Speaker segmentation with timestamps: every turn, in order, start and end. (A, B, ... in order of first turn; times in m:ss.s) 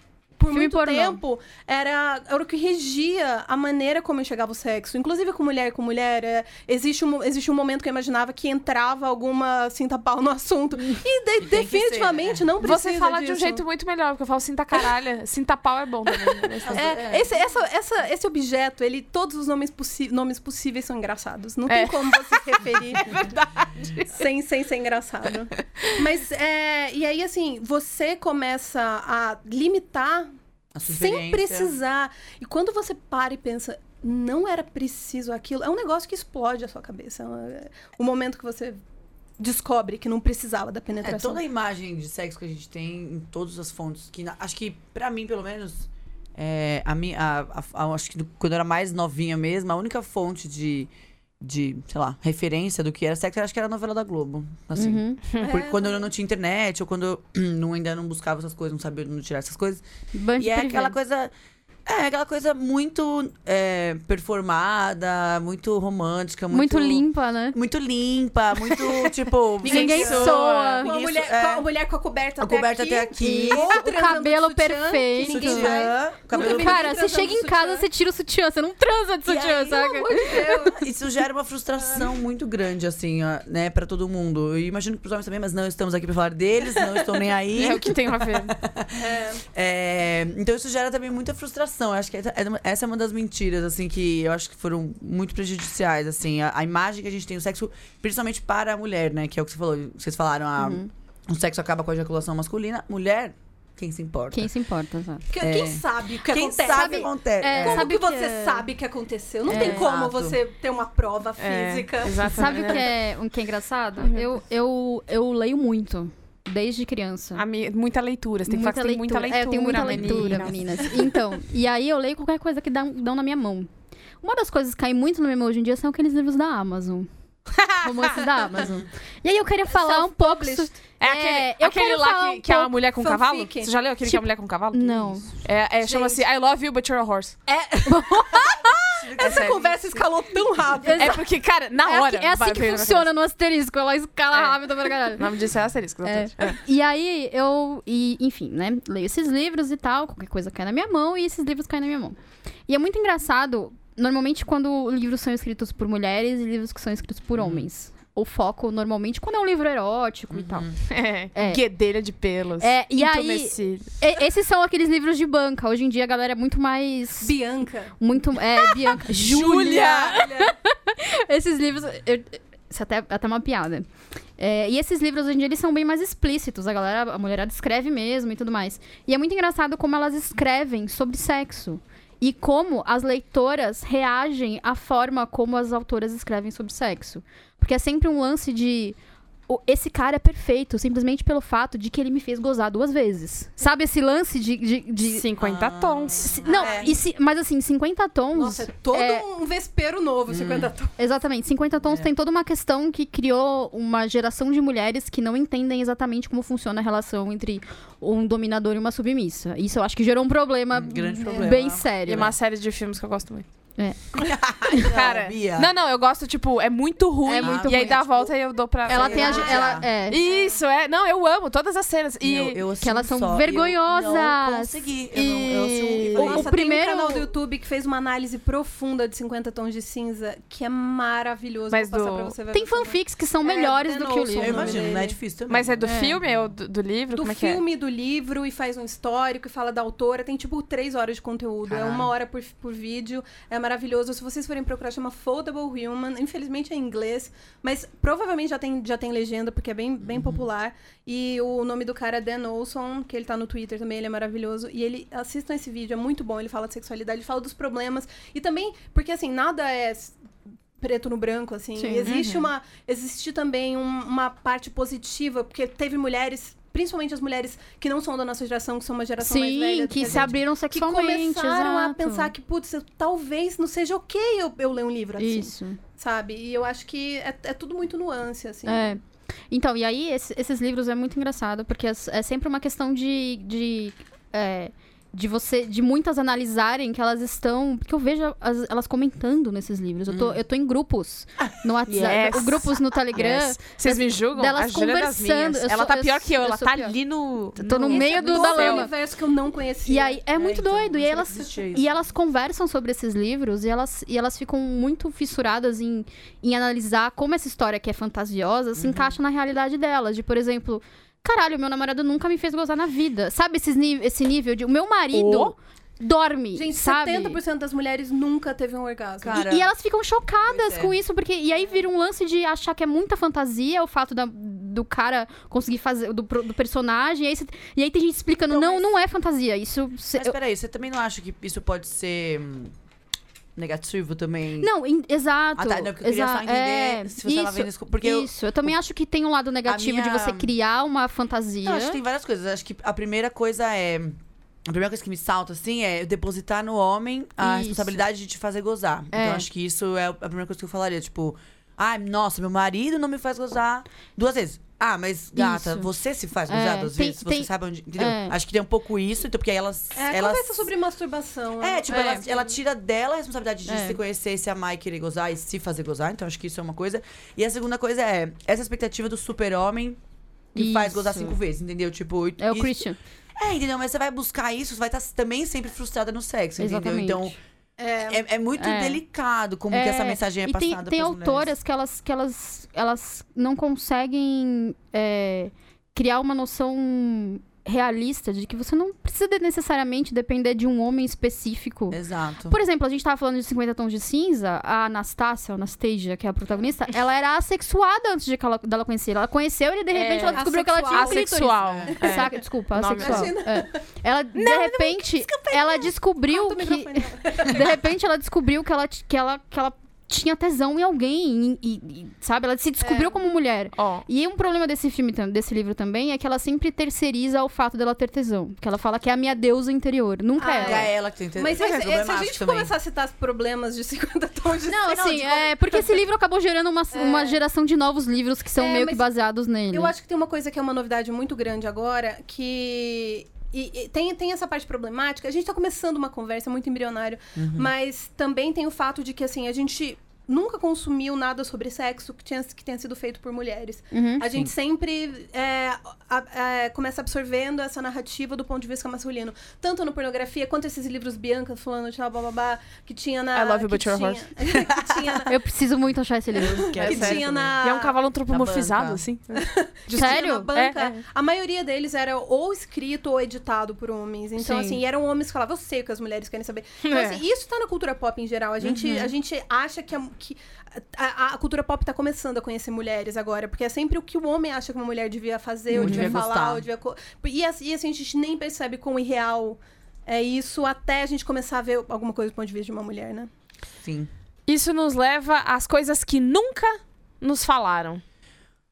0:00.4-0:13.6 A
0:00.5-0:01.2 B
0:10.9-0:12.5 C
0:12.6-0:16.8 D
0:16.6-0:17.5 C
0:16.7-0:23.2 A
0:21.7-0:24.2 D
0:24.1-0:30.3 A
0:30.8-0:31.8 C
0:30.9-0:38.8 A
0:39.4-0:41.4 A
0:41.0-0:50.9 C
0:51.4-0:59.8 C
0:54.8-0:55.2 B
0:55.4-0:56.1 A
1:00.1-1:01.0 B
1:00.4-1:01.3 C
1:01.9-1:11.7 C
1:06.5-1:07.6 B
1:09.6-1:10.8 D
1:09.6-1:10.9 B
1:09.7-1:17.9 A
1:12.4-1:13.8 C
1:13.2-1:20.7 B
1:15.2-1:17.0 C
1:19.2-1:44.5 C
1:19.9-1:20.9 A
1:21.8-1:22.1 A
1:26.8-1:27.0 A
1:27.5-1:28.6 D
1:29.0-1:29.4 A
1:40.6-1:40.9 B
1:44.3-1:45.3 B
1:45.3-1:52.7 A
1:45.4-1:47.9 C
1:46.7-1:48.7 B
1:49.5-1:50.4 C
1:49.5-1:49.9 B
1:51.4-1:52.9 D
1:52.3-1:57.4 B
1:54.0-1:54.3 D
1:57.4-2:00.9 D
1:58.5-2:03.7 B
1:59.9-2:00.8 C
2:04.2-2:07.1 B
2:07.6-2:08.2 D
2:07.8-2:12.8 B
2:08.6-2:08.9 C
2:09.7-2:10.8 A
2:11.0-2:17.4 D
2:13.0-2:13.7 A
2:14.0-2:15.4 B
2:15.8-2:16.2 A
2:17.5-2:21.2 A
2:17.9-2:18.6 B
2:18.4-2:19.7 C
2:19.2-2:20.0 D
2:20.8-2:21.2 B
2:20.9-2:23.1 D
2:21.8-2:25.3 B
2:24.3-2:24.6 D
2:25.1-2:26.6 D
2:26.0-2:32.2 B
2:32.7-2:40.7 B
2:37.4-2:37.7 C
2:40.3-2:40.8 C
2:40.9-2:43.9 D
2:41.4-2:41.6 B
2:42.6-2:47.3 B
2:47.2-2:48.0 A
2:48.0-2:53.9 B
2:49.0-2:50.3 D
2:49.2-2:50.5 A
2:54.4-3:09.0 B
3:09.5-3:15.3 B
3:15.1-3:16.4 D
3:15.4-3:16.9 C
3:16.4-3:19.2 B
3:16.4-3:17.0 A
3:18.3-3:20.9 A
3:20.3-3:20.7 C
3:21.0-3:32.3 B
3:30.7-3:32.2 C
3:32.1-3:33.5 D
3:33.8-3:34.2 B
3:34.2-3:35.7 C
3:34.7-3:42.6 D
3:37.2-3:38.1 B
3:37.4-3:38.3 C
3:38.8-3:39.9 C
3:38.9-3:40.2 B
3:39.1-3:40.6 A
3:42.2-3:46.4 C
3:42.8-3:44.8 B
3:45.1-3:46.4 D
3:46.1-3:55.2 A
3:46.2-3:47.3 B
3:51.7-3:52.4 D
3:52.5-3:54.9 B
3:54.4-3:56.5 C
3:55.5-3:57.6 D
3:55.8-3:56.2 B
3:57.2-4:20.2 A
4:01.7-4:02.1 C
4:10.0-4:10.4 C
4:20.8-4:39.0 A
4:21.8-4:22.1 B
4:22.0-4:22.5 D
4:29.2-4:32.3 B
4:35.2-4:35.8 B
4:38.6-4:39.0 B
4:39.5-4:56.9 B
4:50.1-4:50.4 C
4:51.9-4:58.9 D
4:57.6-4:58.9 B
4:57.8-5:00.2 A
4:59.9-5:17.4 B
5:00.3-5:01.9 C
5:08.8-5:09.2 C
5:15.1-5:15.5 D
5:16.5-5:19.4 A
5:19.2-5:19.7 C
5:19.3-5:30.4 B
5:20.5-5:20.9 C
5:28.5-5:28.9 A
5:30.2-5:32.7 C
5:33.6-5:34.7 C
5:34.6-5:42.0 B
5:35.6-5:38.8 C
5:39.6-5:40.5 C
5:41.6-6:00.7 C
5:47.4-5:48.0 B
5:49.1-5:49.5 B
5:55.4-5:55.9 B
5:56.5-5:58.4 B
6:00.0-6:02.6 A
6:01.6-6:10.0 C
6:03.7-6:04.0 B
6:10.5-6:12.8 C
6:10.6-6:11.4 B
6:12.4-6:13.0 B
6:13.4-6:17.4 C
6:16.6-6:17.3 B
6:17.8-6:18.2 A
6:18.1-6:21.5 C
6:18.6-6:19.0 B
6:19.7-7:00.9 B
6:31.9-6:32.6 C
6:39.9-6:43.3 D
6:40.3-6:42.4 A
6:41.6-6:41.9 C
6:43.0-6:43.8 A
6:44.4-6:45.0 D
6:45.3-6:47.8 A
6:52.8-6:53.2 A
6:53.8-6:54.0 D
7:00.4-7:06.0 A
7:00.6-7:02.7 C
7:04.7-7:09.9 B
7:06.9-7:07.4 A
7:08.6-7:09.1 A
7:09.7-7:35.4 A
7:17.4-7:17.7 C
7:23.9-7:24.3 B
7:33.3-7:34.3 D
7:34.7-7:35.0 C
7:35.3-7:36.8 B
7:36.4-7:38.0 A
7:36.4-7:37.6 C
7:36.7-7:41.0 D
7:38.3-7:39.0 C
7:39.4-8:03.3 A
7:39.9-7:40.5 B
7:44.4-7:44.8 B
7:46.8-7:47.2 D
7:48.6-7:49.1 C
7:55.7-7:56.6 C
7:55.7-7:56.2 B
8:03.8-8:04.1 C
8:04.5-8:08.0 D